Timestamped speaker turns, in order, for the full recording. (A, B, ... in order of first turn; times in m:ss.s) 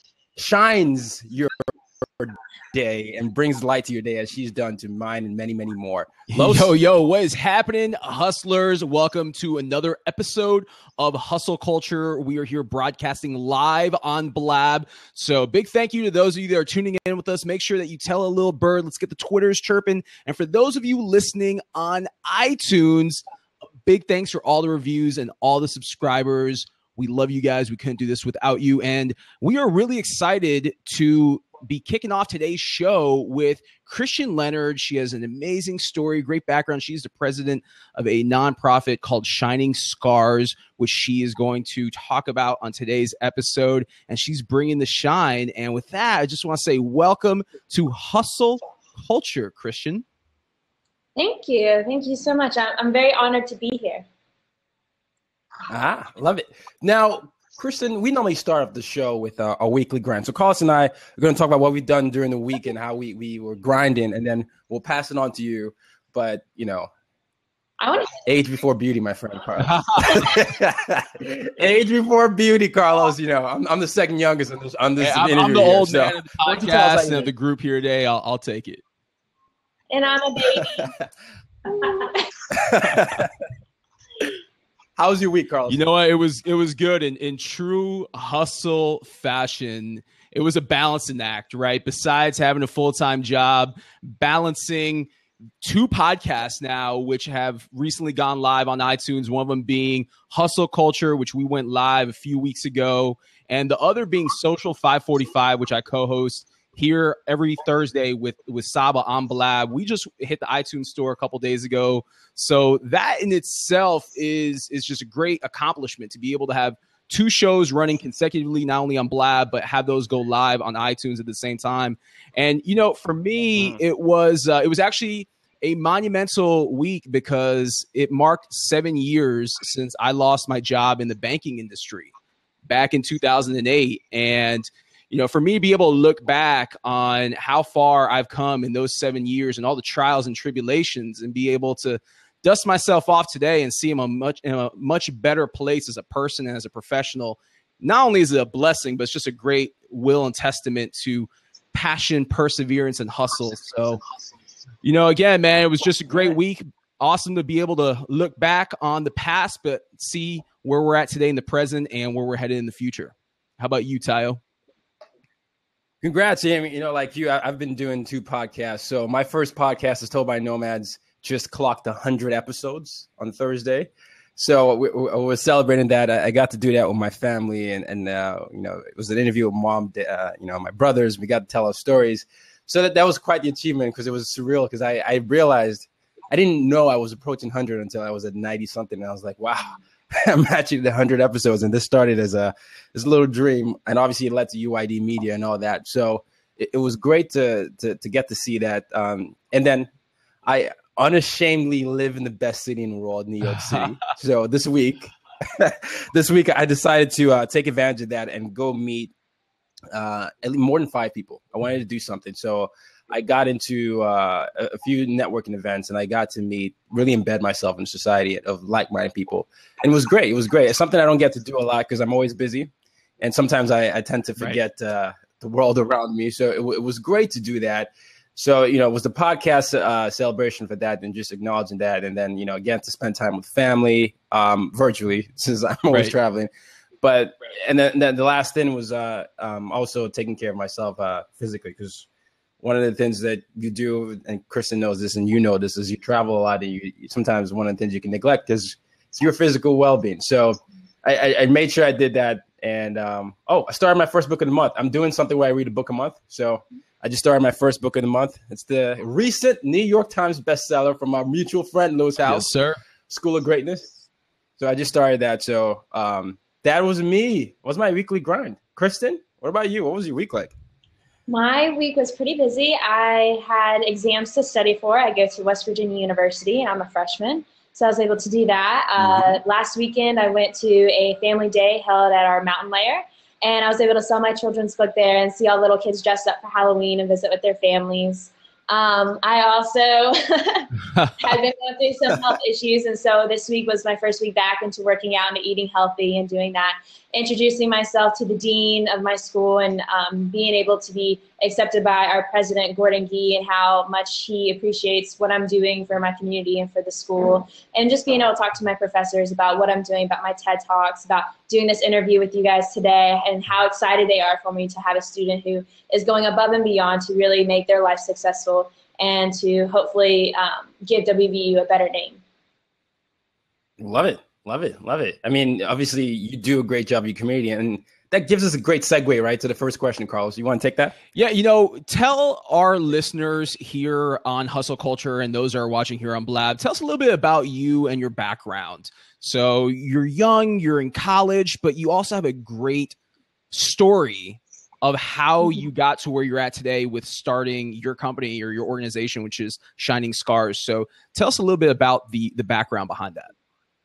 0:00.4-0:06.7 A
0:06.3-0:23.2 B
0:23.8-0:50.0 B
0:51.2-0:54.1 C
0:55.7-1:06.9 A
1:07.8-1:08.2 C
1:08.2-1:17.3 A
1:09.6-1:10.4 B
1:15.0-1:18.8 B
1:19.9-1:20.9 C
1:21.7-1:22.4 C
1:22.5-1:23.3 A
1:25.0-1:25.8 A
1:25.7-1:35.1 B
1:35.6-2:12.1 B
2:12.7-2:34.0 B
2:34.8-2:44.4 B
2:46.0-3:19.9 A
3:20.4-3:29.1 A
3:23.4-3:24.0 B
3:29.9-3:42.7 A
3:43.2-3:56.5 A
3:57.0-4:02.1 A
4:02.6-4:22.5 A
4:22.2-4:22.8 B
4:23.1-4:24.0 A
4:24.6-4:30.5 A
4:31.3-5:22.2 C
4:39.0-4:39.3 A
5:23.8-5:31.0 A
5:31.2-5:43.0 B
5:43.5-5:53.3 B